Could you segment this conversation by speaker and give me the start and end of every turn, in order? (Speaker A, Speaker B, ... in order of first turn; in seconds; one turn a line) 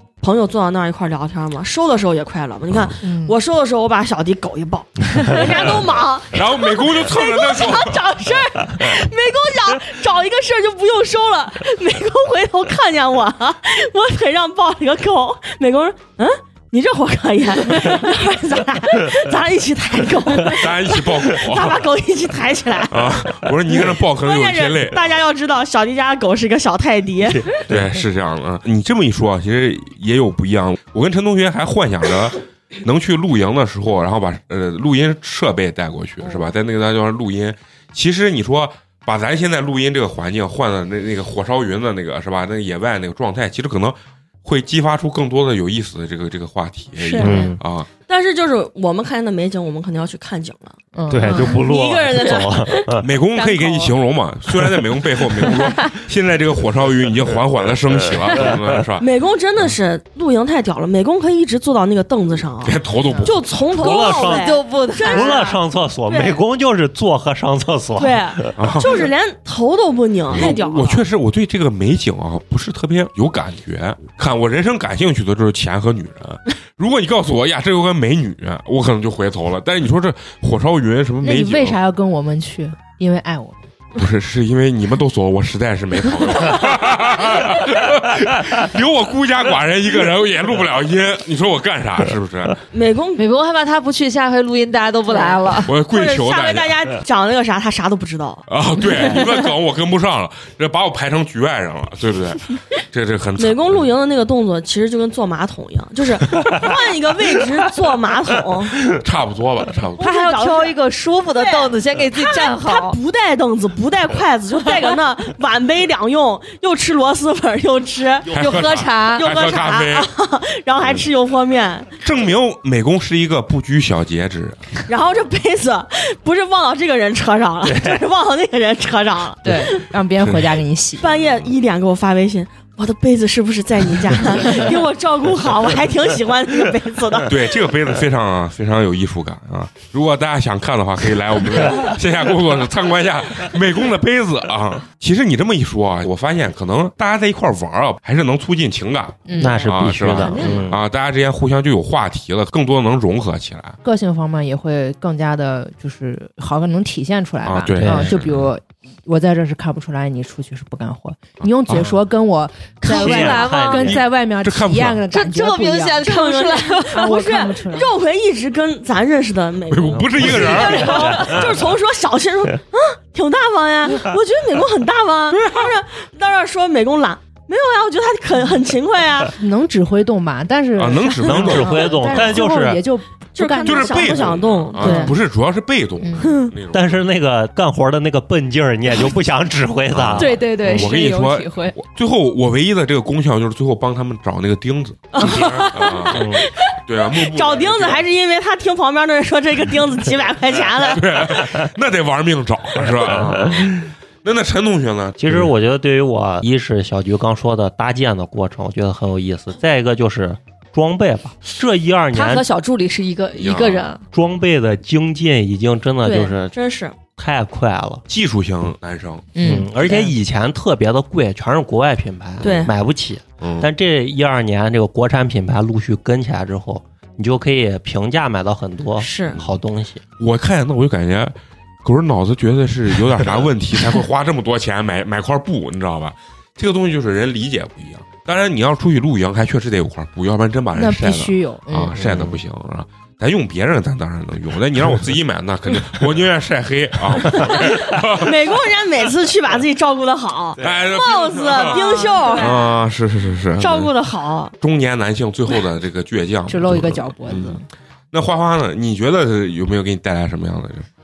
Speaker A: 0.2-27.5
Speaker B: 3.0-3.4
Speaker C: 6.3-8.0
Speaker C: 20.5-21.8
Speaker C: 22.9-25.1
Speaker C: 27.6-47.9
Speaker B: 47.0-47.5
Speaker D: 47.2-47.6
Speaker A: 48.1-50.8
Speaker B: 50.9-51.6
Speaker D: 51.1-53.0
Speaker E: 51.2-51.5
Speaker A: 51.3-53.9
Speaker C: 53.0-59.0
Speaker A: 59.0-66.4
Speaker C: 62.6-63.5
Speaker D: 63.7-68.6
Speaker E: 63.8-65.5
Speaker A: 68.0-71.0
Speaker C: 68.6-69.1
Speaker C: 70.3-81.8
Speaker B: 81.2-83.7
Speaker C: 83.9-92.5
Speaker A: 92.7-93.2
Speaker E: 93.2-95.7
Speaker A: 95.1-98.4
Speaker C: 95.6-96.7
Speaker C: 98.5-103.9
Speaker A: 103.4-108.8
Speaker C: 108.8-110.0
Speaker E: 110.0-113.0
Speaker A: 110.0-110.8
Speaker A: 111.3-118.5
Speaker C: 118.3-120.1
Speaker E: 118.3-119.2
Speaker A: 119.1-121.9
Speaker C: 122.0-124.7
Speaker A: 124.8-129.8
Speaker D: 127.7-128.0
Speaker B: 129.4-131.1
Speaker C: 130.2-130.6
Speaker A: 131.0-137.3
Speaker C: 137.3-153.8
Speaker B: 149.3-150.6
Speaker D: 149.4-150.8
Speaker A: 150.2-150.7
Speaker B: 153.8-166.0
Speaker C: 157.4-158.5
Speaker D: 157.8-158.2
Speaker D: 162.8-164.1
Speaker E: 162.9-164.0
Speaker C: 164.4-165.0
Speaker E: 165.1-167.1
Speaker A: 166.0-179.3
Speaker B: 166.9-167.9
Speaker C: 169.7-171.5
Speaker D: 170.1-171.6
Speaker B: 179.3-185.2
Speaker C: 180.7-182.2
Speaker D: 181.2-182.8
Speaker A: 183.3-185.1
Speaker C: 183.6-186.9
Speaker B: 186.0-186.3
Speaker A: 186.2-186.5
Speaker D: 186.7-190.9
Speaker C: 189.9-198.1
Speaker B: 190.2-191.7
Speaker A: 195.1-201.4
Speaker D: 196.1-196.4
Speaker C: 200.8-205.5
Speaker D: 205.2-212.4
Speaker E: 212.1-214.0
Speaker C: 213.3-213.9
Speaker D: 214.1-216.5
Speaker A: 216.0-216.9
Speaker D: 217.2-218.0
Speaker C: 218.1-219.3
Speaker B: 219.3-220.1
Speaker D: 219.4-230.0
Speaker A: 222.4-222.7
Speaker C: 223.4-223.7
Speaker A: 229.0-229.4
Speaker C: 230.2-248.4
Speaker B: 240.7-241.9
Speaker D: 242.0-242.4
Speaker A: 247.4-252.7
Speaker C: 250.6-253.9
Speaker B: 251.9-252.2
Speaker A: 253.6-254.5
Speaker C: 254.6-257.6
Speaker B: 256.5-257.6
Speaker C: 258.1-260.9